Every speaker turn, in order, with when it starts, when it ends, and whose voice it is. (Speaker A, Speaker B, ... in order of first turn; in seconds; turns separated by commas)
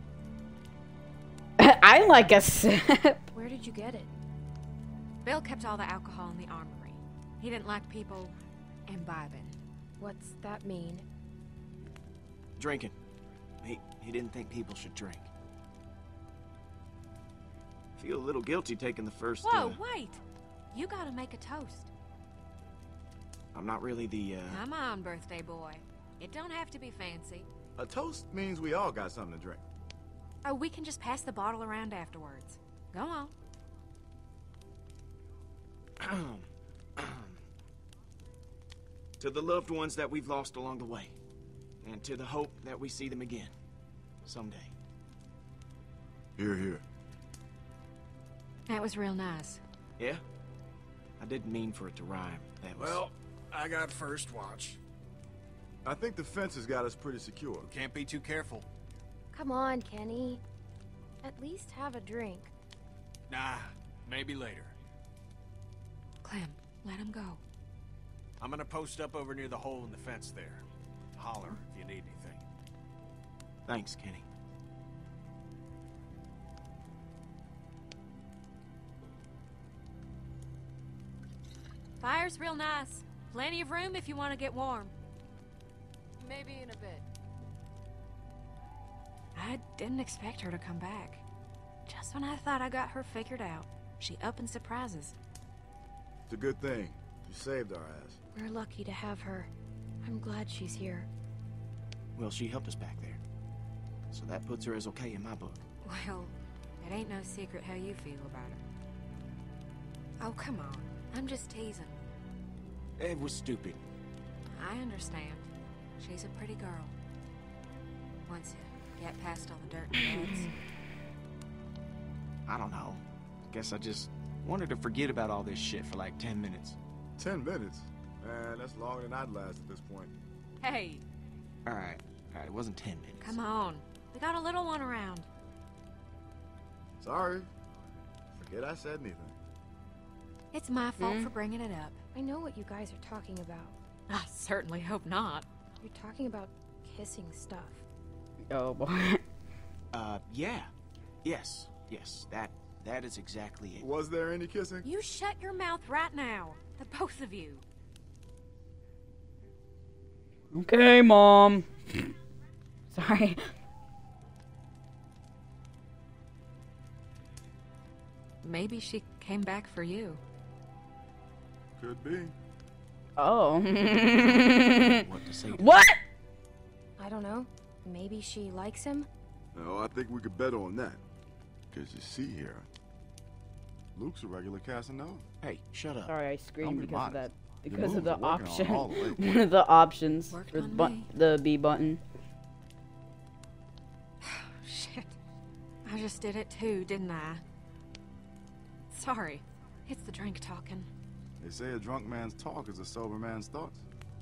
Speaker A: 1.6-3.2, Speaker B: 3.3-4.1, Speaker C: 5.2-8.3, Speaker C: 8.9-9.6, Speaker B: 10.0-11.1, Speaker D: 12.6-12.9, Speaker D: 13.6-15.3, Speaker D: 18.0-19.8, Speaker C: 19.4-21.9, Speaker D: 23.5-24.6, Speaker C: 24.5-27.5, Speaker E: 27.8-29.6, Speaker C: 30.4-33.3, Speaker D: 36.0-37.4, Speaker D: 39.2-41.1, Speaker D: 41.8-43.5, Speaker D: 44.2-44.7, Speaker E: 46.4-46.8, Speaker C: 48.6-49.6, Speaker D: 50.0-50.2, Speaker D: 51.2-53.0, Speaker F: 52.8-54.8, Speaker E: 55.8-57.7, Speaker F: 57.6-58.7, Speaker B: 59.3-60.4, Speaker B: 61.2-62.5, Speaker F: 63.3-64.7, Speaker C: 66.2-67.4, Speaker F: 68.4-70.6, Speaker F: 71.2-72.4, Speaker D: 73.7-74.2, Speaker C: 82.0-84.9, Speaker C: 86.3-87.0, Speaker C: 89.3-91.2, Speaker C: 91.8-95.2, Speaker E: 96.3-98.2, Speaker B: 98.3-99.5, Speaker B: 100.0-101.1, Speaker D: 102.2-103.2, Speaker D: 104.1-105.6, Speaker C: 105.8-108.6, Speaker C: 110.2-112.0, Speaker D: 113.0-113.8, Speaker C: 114.5-116.9, Speaker C: 118.2-120.5, Speaker A: 120.1-120.4, Speaker D: 122.5-126.8, Speaker E: 127.2-130.1, Speaker C: 130.6-131.0, Speaker D: 131.6-133.4, Speaker C: 133.2-135.3, Speaker E: 137.0-137.5, Speaker E: 138.3-139.3, Speaker C: 140.5-142.0, Speaker A: 141.0-141.3, Speaker B: 142.1-143.8, Speaker C: 144.1-145.5, Speaker B: 145.8-147.8, Speaker A: 148.5-149.2, Speaker D: 149.9-150.7, Speaker D: 151.2-153.9, Speaker E: 153.8-154.9, Speaker C: 154.8-157.7, Speaker A: 160.5-162.1, Speaker A: 162.9-163.5, Speaker C: 168.4-170.2, Speaker E: 171.8-172.3, Speaker A: 173.2-176.0, Speaker D: 175.0-175.8, Speaker B: 177.0-179.1, Speaker E: 179.5-181.0, Speaker E: 181.7-182.7, Speaker E: 183.9-185.2, Speaker D: 185.4-186.1, Speaker A: 186.1-192.0, Speaker E: 186.6-189.5, Speaker C: 190.3-191.1, Speaker C: 194.2-195.2, Speaker C: 195.8-197.4, Speaker C: 198.9-200.9, Speaker E: 201.4-203.8